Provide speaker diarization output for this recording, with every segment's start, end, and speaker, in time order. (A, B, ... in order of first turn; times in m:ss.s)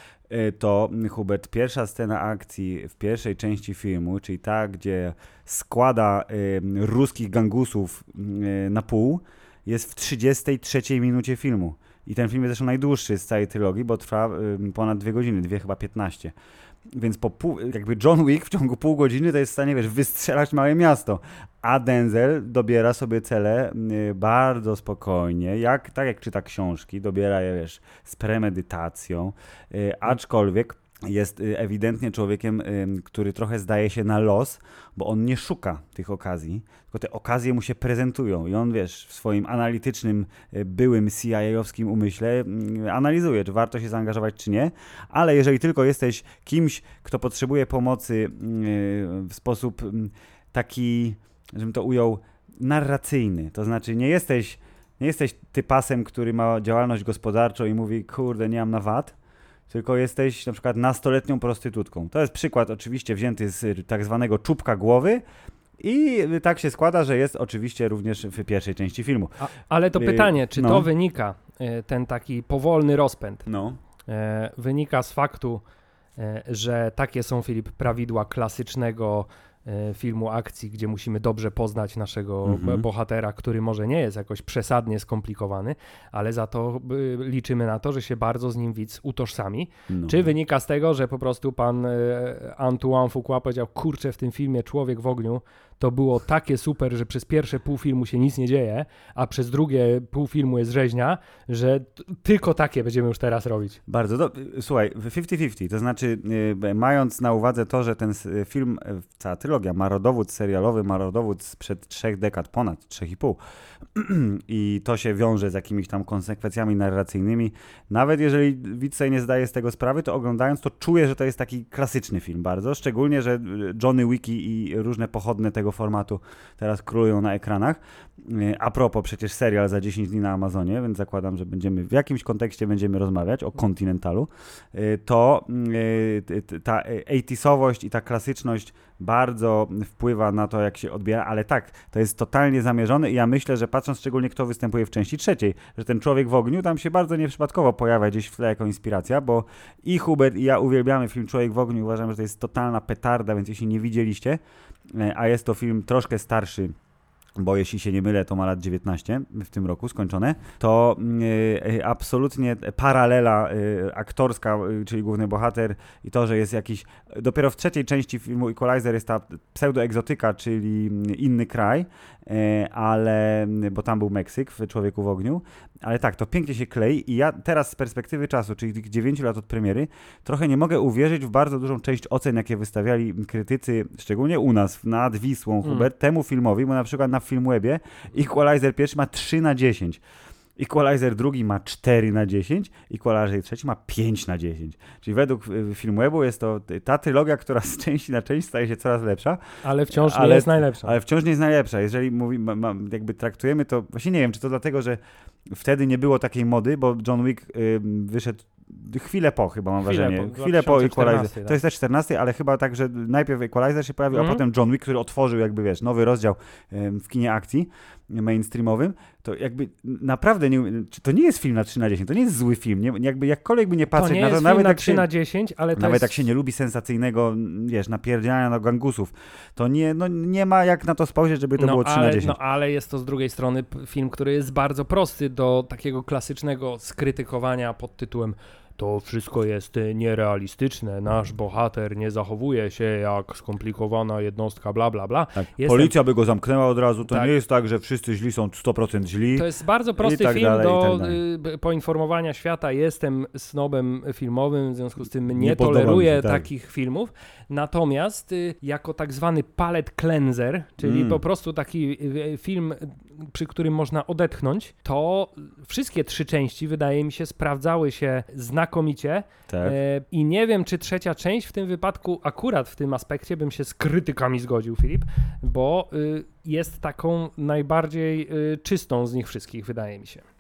0:00.3-0:16.3 A
0:16.9-0:59.2 A
0:59.7-1:05.2 A
1:05.8-1:09.4 A
1:09.4-1:13.5 B
1:10.0-1:10.9 A
1:13.5-1:13.8 A
1:14.1-1:15.6 B
1:16.2-1:43.8 B
1:22.4-1:22.8 A
1:29.9-1:30.3 A
1:43.9-1:53.4 A
1:53.9-2:34.4 A
2:34.9-2:36.8 A
2:37.4-3:10.0 A
3:10.6-3:19.4 A
3:19.6-3:21.0 B
3:19.9-3:45.1 A
3:29.8-3:31.6 B
3:34.1-3:34.4 B
3:43.9-3:46.1 B
3:45.8-3:52.4 A
3:51.6-4:05.9 B
4:05.4-4:09.5 A
4:09.4-4:40.2 B
4:10.0-4:11.2 A
4:15.4-4:16.5 A
4:20.8-4:21.2 A
4:29.5-4:29.8 A